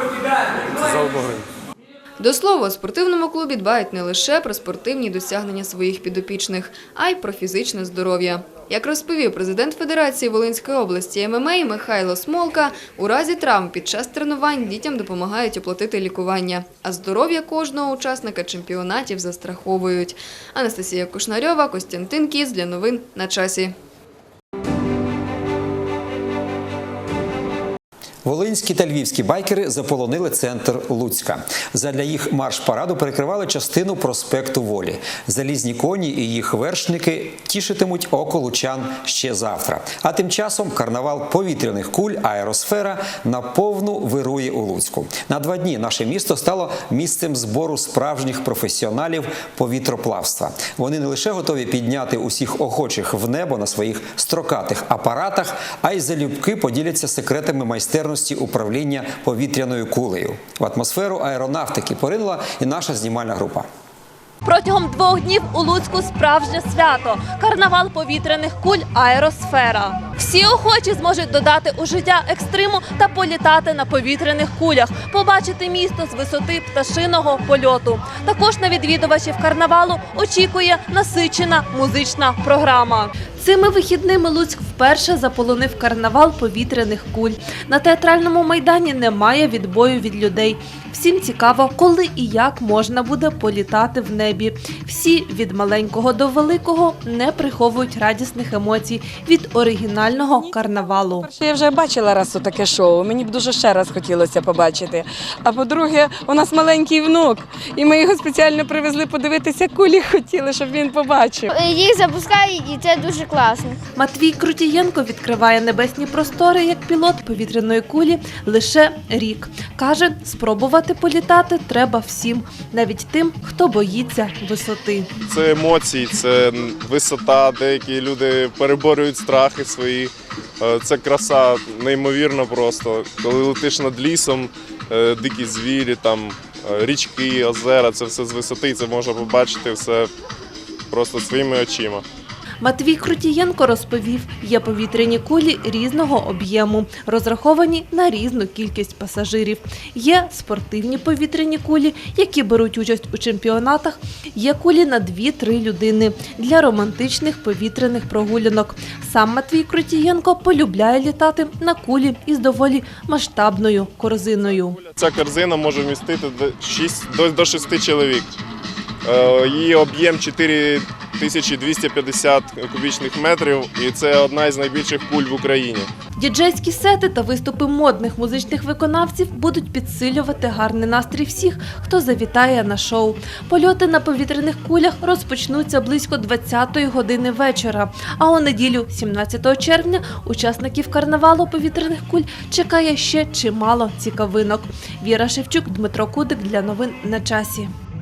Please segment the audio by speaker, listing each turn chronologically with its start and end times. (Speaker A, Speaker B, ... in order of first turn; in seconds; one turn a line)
Speaker A: 2.2-23.8
Speaker B: 28.2-63.7
Speaker C: 64.4-101.3
Speaker D: 101.3-111.4
Speaker E: 111.5-113.7
Speaker C: 114.0-125.1
Speaker F: 125.3-130.1
Speaker F: 130.6-140.1
Speaker F: 140.9-142.0
Speaker C: 142.6-164.8
Speaker F: 165.0-168.3
Speaker F: 169.1-175.9
Speaker C: 176.2-197.7